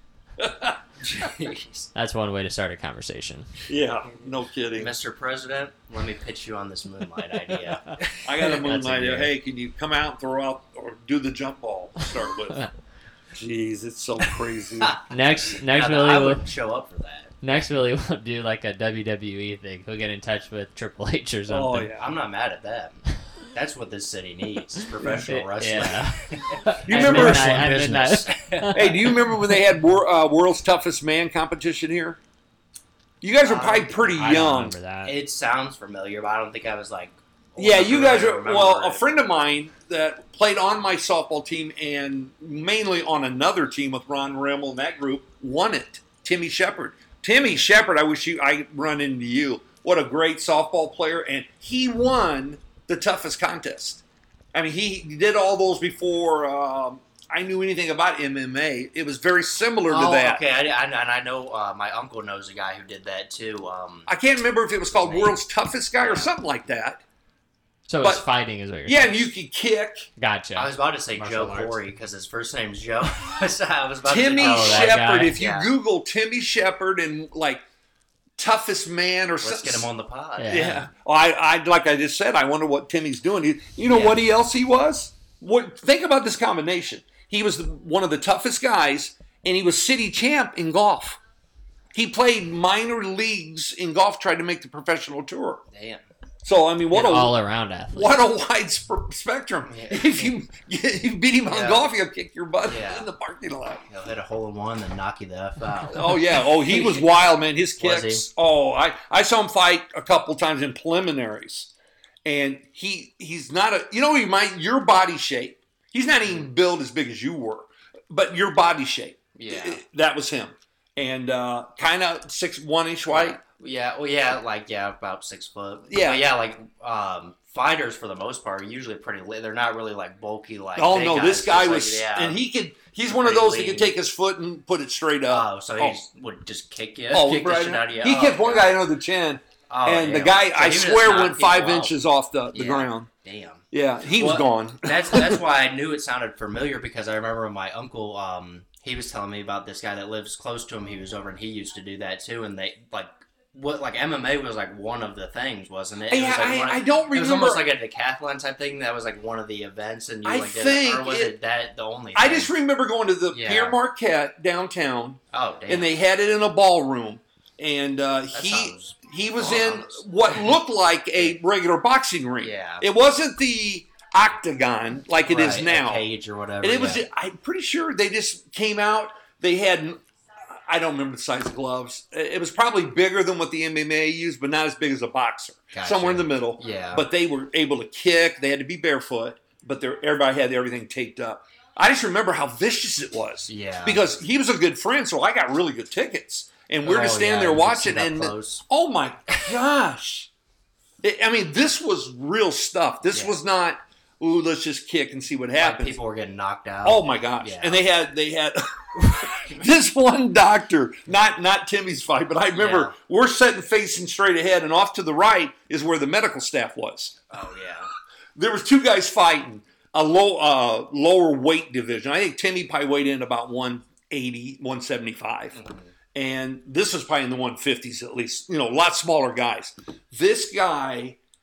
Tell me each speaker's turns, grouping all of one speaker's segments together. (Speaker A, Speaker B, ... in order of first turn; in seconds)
Speaker A: 0.4-0.8, 3.7-4.9, 8.2-12.6, 13.3-15.0, 21.5-22.0, 25.0-25.3, 26.9-27.7, 28.7-32.2, 33.2-34.8, 37.6-54.0, 54.5-60.4, 64.1-67.0, 68.8-70.1, 74.0-77.6, 78.4-79.8, 80.5-91.2, 91.9-95.6, 96.4-97.3, 97.9-103.8, 105.9-111.7, 112.2-123.4, 125.9-126.2, 130.8-136.0, 137.1-143.1, 143.7-145.4, 156.1-157.7, 160.2-161.3, 162.1-176.0, 176.6-180.0, 180.5-200.3, 201.0-206.0, 206.8-217.2, 218.3-225.6, 226.1-231.2
Speaker B: 1.0-1.9, 4.7-8.6, 14.8-17.6, 21.9-28.9, 33.4-34.2, 35.0-39.0, 59.9-64.1, 64.9-65.4, 66.0-66.3, 70.5-75.7, 79.4-80.5, 83.9-84.1, 95.7-96.0, 99.7-100.2, 101.5-101.9, 102.6-103.1, 103.9-107.1, 107.8-108.2, 119.3-119.8, 123.1-132.4, 133.1-133.9, 135.3-138.7, 139.7-141.9, 142.5-162.5, 163.3-163.8, 165.3-165.9, 168.3-170.5, 172.4-172.8, 175.2-177.1, 185.7-187.1, 193.5-194.0, 196.8-198.6, 203.1-203.4, 205.6-207.8, 209.0-209.6, 212.5-212.9, 217.3-217.9, 225.5-225.9
Speaker C: 1.9-3.6, 7.5-9.3, 15.1-16.5, 17.4-21.9, 25.3-29.0, 34.1-35.1, 67.9-69.1, 70.2-71.7, 74.4-75.3, 80.4-80.8, 96.9-98.2